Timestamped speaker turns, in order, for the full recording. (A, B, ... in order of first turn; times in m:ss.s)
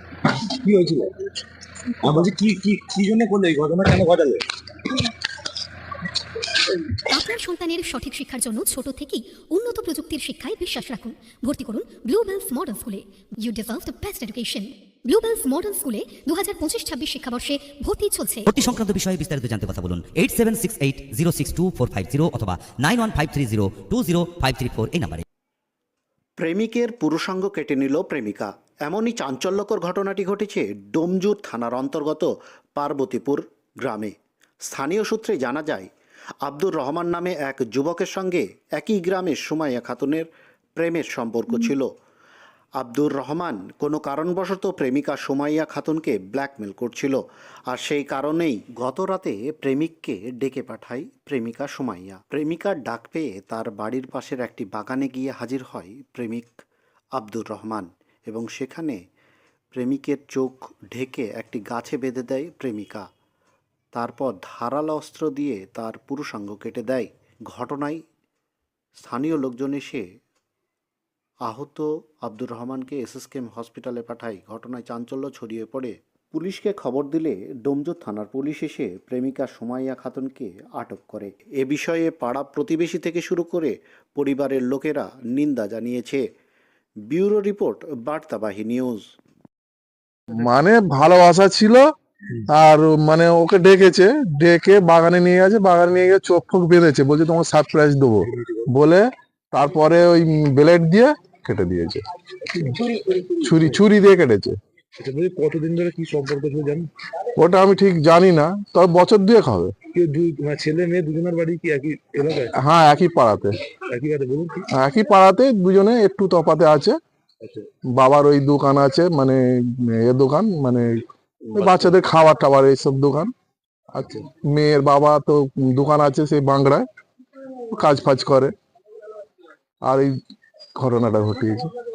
0:00.5-0:01.1 A
0:02.0-0:04.4 A
0:07.1-0:18.5 B
0:18.5-0:25.2 C
0:26.4-0:34.1 D
0:34.7-0:35.9 D
0:36.4-0:41.9 D
0:42.8-0:56.5 D
0:57.2-0:59.0 D
0:59.7-1:03.0 D
1:03.9-1:08.0 D
1:09.0-1:10.0 D
1:11.4-1:26.2 D
1:27.1-1:29.0 D
1:30.4-1:31.8 E
1:32.5-1:42.0 E
1:38.2-1:38.7 A
1:42.5-1:43.8 A
1:43.4-1:44.6 E
1:45.0-1:46.9 A
1:47.4-1:49.7 E
1:49.9-1:52.5 A
1:52.6-1:53.5 E
1:53.9-1:54.7 A
1:54.8-1:57.0 E
1:57.4-1:57.7 A
1:58.0-2:00.9 E
2:01.4-2:02.0 A
2:01.6-2:03.3 E
2:04.0-2:04.2 A
2:04.5-2:06.8 E
2:07.7-2:08.5 E
2:09.8-2:10.1 E
2:10.8-2:11.6 E